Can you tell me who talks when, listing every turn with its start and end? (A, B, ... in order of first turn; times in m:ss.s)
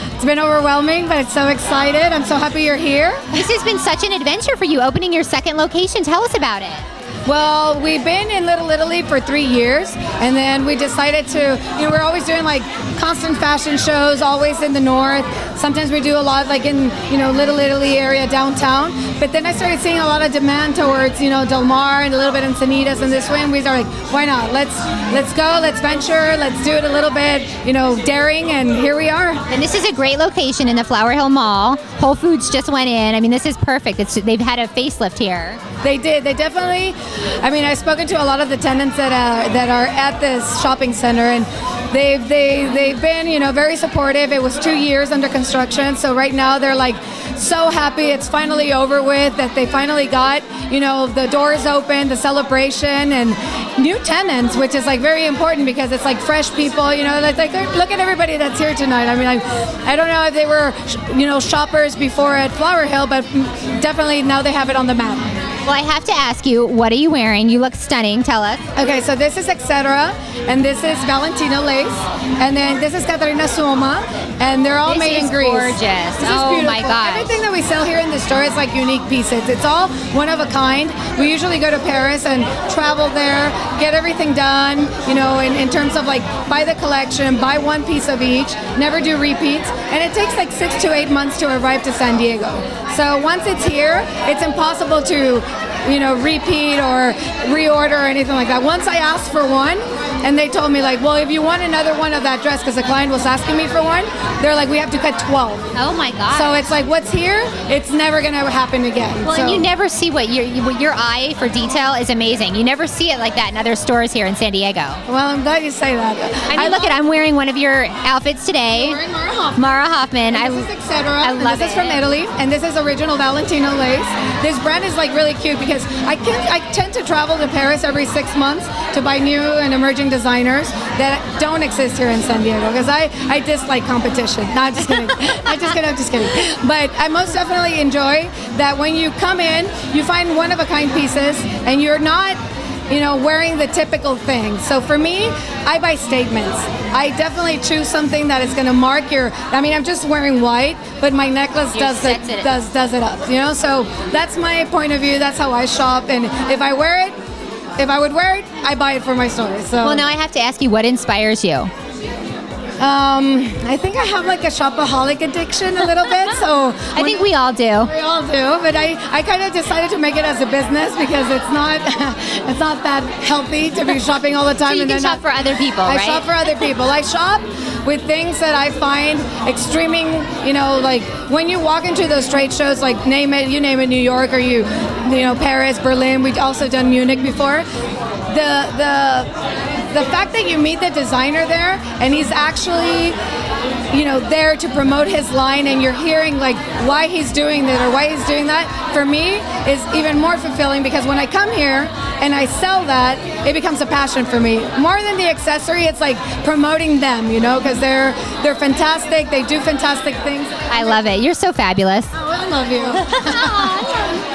0:00.2-0:03.3 A
0:03.3-0:06.8 B
0:07.3-0:29.4 A
0:29.5-0:35.6 B
0:35.8-1:05.3 A
1:05.7-1:08.6 B
1:08.8-1:45.7 A
1:14.8-1:17.3 B
1:45.8-1:46.6 B
1:46.3-1:49.7 A
1:49.2-1:55.0 B
1:55.1-1:57.0 A
1:56.5-1:59.0 B
1:58.8-1:59.7 A
1:59.6-2:00.7 B
2:00.3-2:37.2 A
2:01.2-2:02.0 B
2:31.7-2:32.5 B
2:37.8-2:40.1 A
2:39.8-2:41.7 B
2:42.8-2:47.3 A
2:47.0-2:47.9 B
2:47.8-2:55.2 A
2:54.6-2:56.2 B
2:55.8-3:07.6 A
3:08.3-3:09.3 A
3:09.9-3:13.2 A
3:13.9-3:31.0 A
3:30.7-3:32.1 B
3:32.1-3:33.9 A
3:33.1-3:34.0 B